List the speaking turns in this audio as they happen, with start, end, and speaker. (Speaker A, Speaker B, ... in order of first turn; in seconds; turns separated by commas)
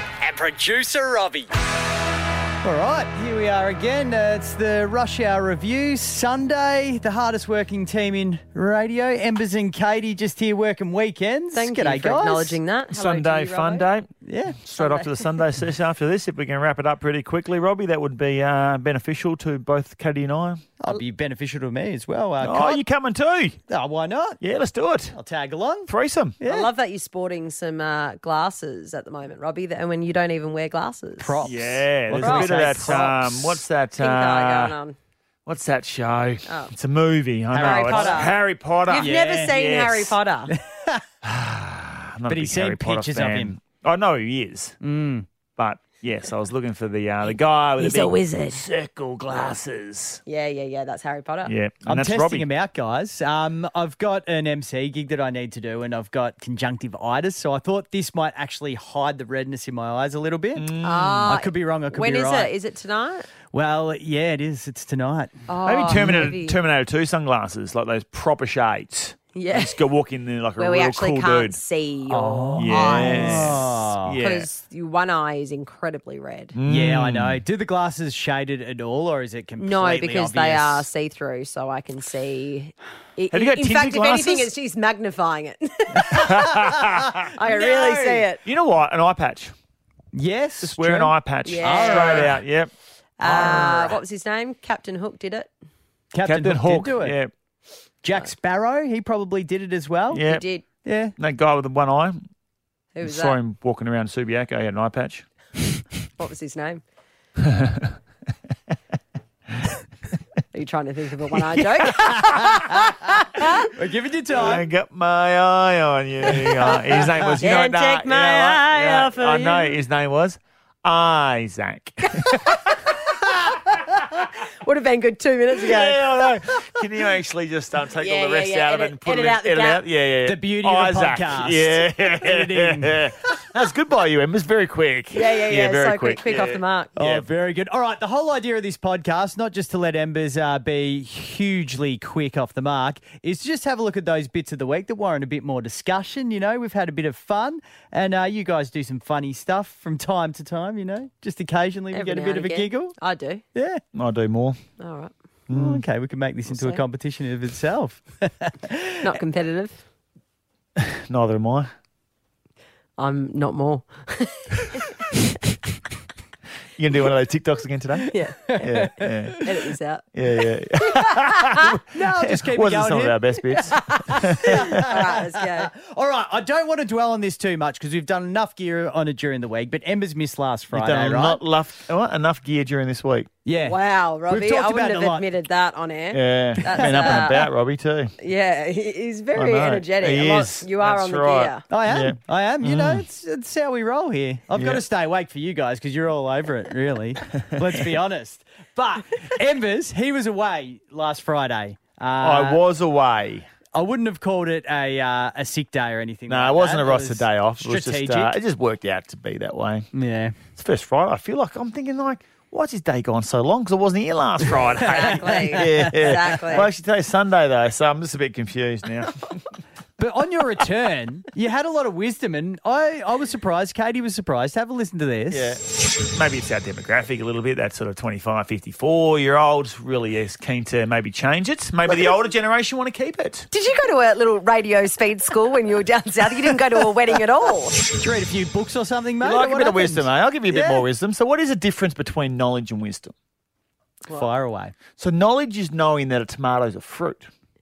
Speaker A: 0.2-1.5, Speaker A: 2.6-12.6, Speaker B: 11.5-13.9, Speaker C: 12.9-20.6, Speaker A: 14.2-14.6, Speaker B: 14.8-15.4, Speaker A: 20.8-22.8, Speaker C: 22.4-23.6, Speaker A: 23.7-24.4, Speaker C: 24.4-25.2, Speaker A: 25.1-26.7, Speaker C: 25.9-26.4, Speaker B: 26.5-31.4, Speaker A: 31.2-33.6, Speaker C: 31.4-34.7, Speaker B: 32.1-32.5, Speaker B: 34.0-35.0, Speaker C: 35.5-40.1, Speaker B: 36.5-36.7, Speaker A: 37.5-38.3, Speaker B: 37.6-38.3, Speaker B: 38.9-40.5, Speaker A: 38.9-39.6, Speaker A: 40.5-41.0, Speaker C: 41.2-44.8, Speaker A: 42.3-43.6, Speaker A: 44.8-45.3, Speaker C: 45.6-50.2, Speaker B: 47.8-48.6, Speaker B: 50.2-51.5, Speaker C: 51.4-52.5, Speaker A: 51.9-60.7, Speaker C: 60.5-61.3, Speaker B: 60.8-63.3, Speaker A: 61.2-62.5, Speaker A: 63.5-65.3, Speaker B: 65.5-66.6, Speaker C: 65.6-71.6, Speaker A: 65.9-66.3, Speaker B: 69.3-69.9, Speaker B: 70.6-73.6, Speaker A: 72.1-74.2, Speaker C: 72.5-74.5, Speaker B: 74.2-76.5, Speaker C: 76.5-77.4, Speaker A: 76.7-80.9, Speaker B: 79.6-86.7, Speaker C: 83.3-84.5, Speaker C: 86.0-87.3, Speaker B: 87.3-88.4, Speaker A: 87.4-88.2, Speaker C: 88.4-89.5, Speaker A: 90.1-92.4, Speaker C: 90.6-92.7, Speaker B: 91.4-92.4, Speaker B: 93.2-95.5, Speaker C: 93.2-94.0, Speaker A: 93.3-93.8, Speaker A: 96.1-97.2, Speaker C: 96.2-97.3, Speaker A: 98.0-100.2, Speaker C: 100.1-100.4, Speaker B: 100.2-100.6, Speaker A: 100.8-101.1, Speaker C: 101.2-102.2, Speaker B: 102.9-103.4, Speaker C: 103.0-105.7, Speaker B: 106.2-106.8, Speaker C: 107.4-107.9, Speaker B: 110.5-113.7, Speaker C: 111.3-113.7, Speaker A: 113.7-114.7, Speaker C: 114.3-122.6, Speaker A: 116.7-117.4, Speaker B: 117.4-119.8, Speaker B: 122.2-126.4, Speaker C: 125.5-137.3, Speaker B: 128.0-129.8, Speaker A: 130.2-133.0, Speaker B: 135.1-136.9, Speaker A: 136.9-152.9, Speaker B: 151.9-153.4, Speaker A: 153.5-153.8, Speaker C: 153.9-154.6, Speaker B: 154.8-155.1, Speaker C: 155.5-155.8, Speaker A: 155.5-159.1, Speaker B: 156.5-156.8, Speaker B: 159.0-159.8, Speaker C: 160.8-161.7, Speaker B: 163.0-165.1, Speaker C: 166.8-168.1, Speaker B: 168.1-168.8, Speaker C: 168.6-169.4, Speaker A: 168.7-169.5, Speaker B: 169.4-170.0, Speaker C: 170.1-174.9, Speaker B: 170.9-171.8, Speaker A: 171.8-173.7, Speaker B: 173.6-175.7, Speaker A: 174.4-181.4, Speaker C: 180.7-183.3, Speaker A: 183.4-185.2, Speaker B: 183.6-187.5, Speaker C: 186.1-188.1, Speaker A: 186.6-187.3, Speaker B: 188.2-191.6, Speaker C: 189.3-193.1, Speaker A: 191.7-202.6, Speaker C: 194.5-194.8, Speaker C: 197.4-197.8, Speaker C: 202.2-203.5, Speaker A: 203.7-208.3, Speaker C: 206.3-209.9, Speaker A: 209.9-210.4, Speaker C: 210.6-219.4, Speaker A: 214.6-216.7, Speaker B: 214.8-216.7, Speaker A: 220.0-225.6, Speaker C: 225.3-233.5, Speaker B: 233.5-237.8, Speaker A: 237.9-240.8, Speaker C: 239.2-243.1, Speaker A: 244.1-244.7, Speaker C: 245.0-247.3